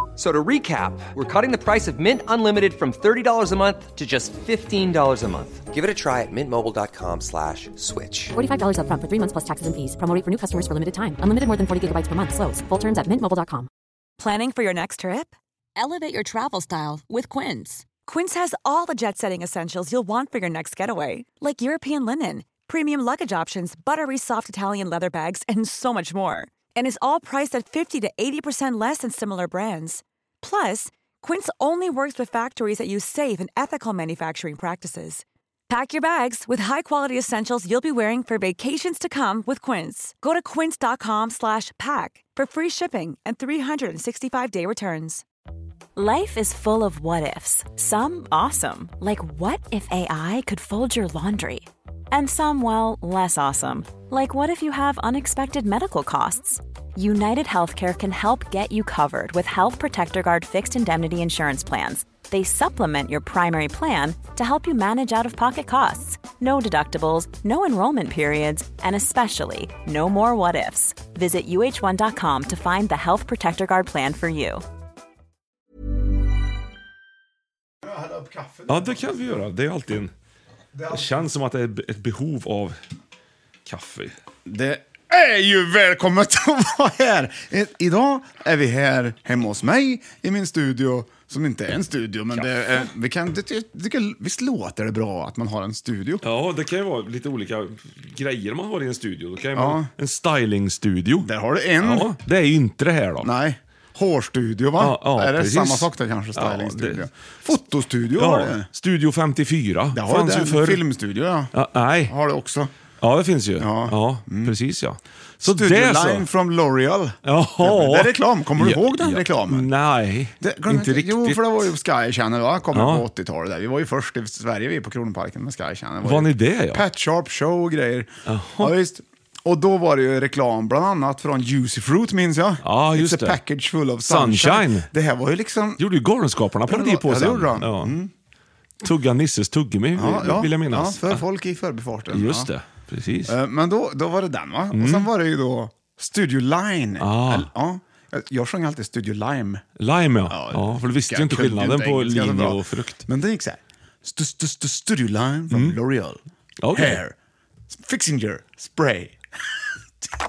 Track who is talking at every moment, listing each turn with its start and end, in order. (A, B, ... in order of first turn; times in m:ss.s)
0:00.2-0:08.3 A
0:08.3-0:13.7 B
0:14.2-0:45.2 C
0:45.9-1:14.6 D
1:17.8-1:19.0 E
1:18.7-1:20.1 F
1:20.7-1:21.1 E
1:20.9-1:22.8 F
1:23.6-1:24.1 F
1:24.4-1:36.2 E
1:36.2-1:43.3 F
1:39.5-1:39.9 E
1:41.2-1:42.1 E
1:43.2-1:48.7 E
1:44.8-1:47.1 F
1:48.2-1:50.8 F
1:49.9-1:51.5 E
1:51.5-1:52.1 F
1:52.0-1:52.7 E
1:53.0-1:56.3 F
1:53.6-1:54.5 E
1:55.5-1:59.7 E
1:57.2-2:01.6 F
2:00.4-2:15.8 E
2:02.7-2:03.0 F
2:06.0-2:06.8 F
2:08.3-2:08.7 F
2:12.6-2:13.4 F
2:14.1-2:14.9 F
2:15.8-2:17.9 F
2:16.7-2:18.1 E
2:18.8-2:21.2 F
2:19.9-2:22.5 E
2:22.1-2:23.3 F
2:23.2-2:29.6 E
2:24.7-2:25.1 F
2:27.0-2:27.5 F
2:29.8-2:33.0 F
2:30.3-2:36.2 E
2:35.5-2:35.8 F
2:36.6-2:37.0 F
2:36.7-2:37.1 E
2:37.7-2:39.2 E